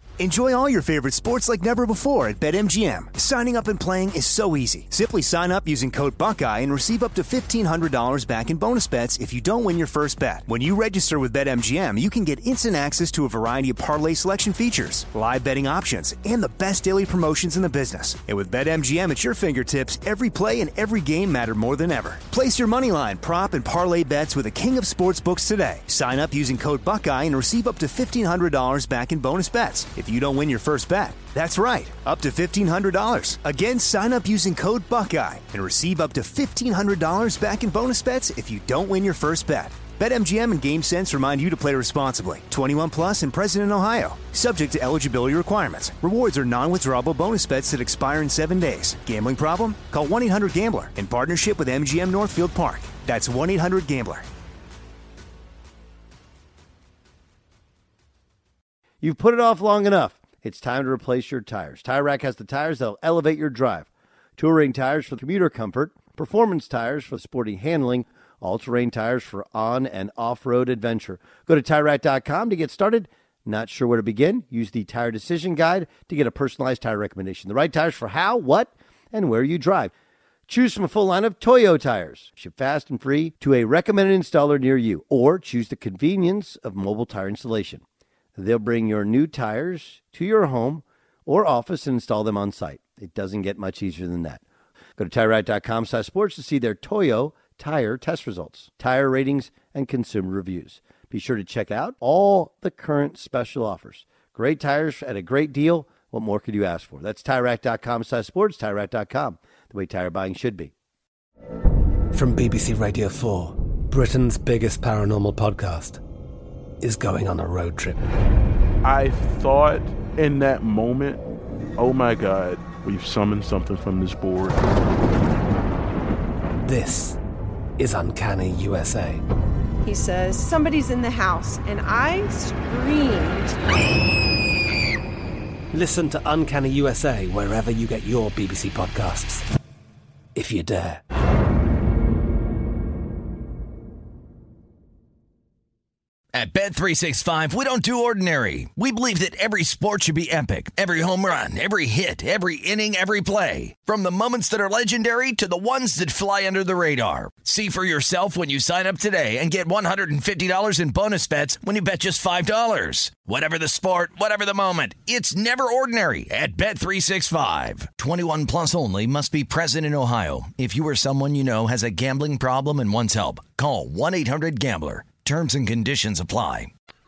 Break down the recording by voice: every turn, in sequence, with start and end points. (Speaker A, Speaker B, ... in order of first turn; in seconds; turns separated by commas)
Speaker A: 0.2-54.2, Speaker B: 59.0-79.9, Speaker B: 80.5-87.8, Speaker B: 88.3-94.4, Speaker B: 95.0-110.7, Speaker C: 112.1-116.0, Speaker C: 116.8-118.0, Speaker D: 118.8-121.2, Speaker D: 121.8-124.6, Speaker C: 126.6-127.2, Speaker C: 127.8-129.2, Speaker E: 129.8-133.6, Speaker C: 135.7-139.4, Speaker C: 140.3-141.0, Speaker F: 146.3-176.7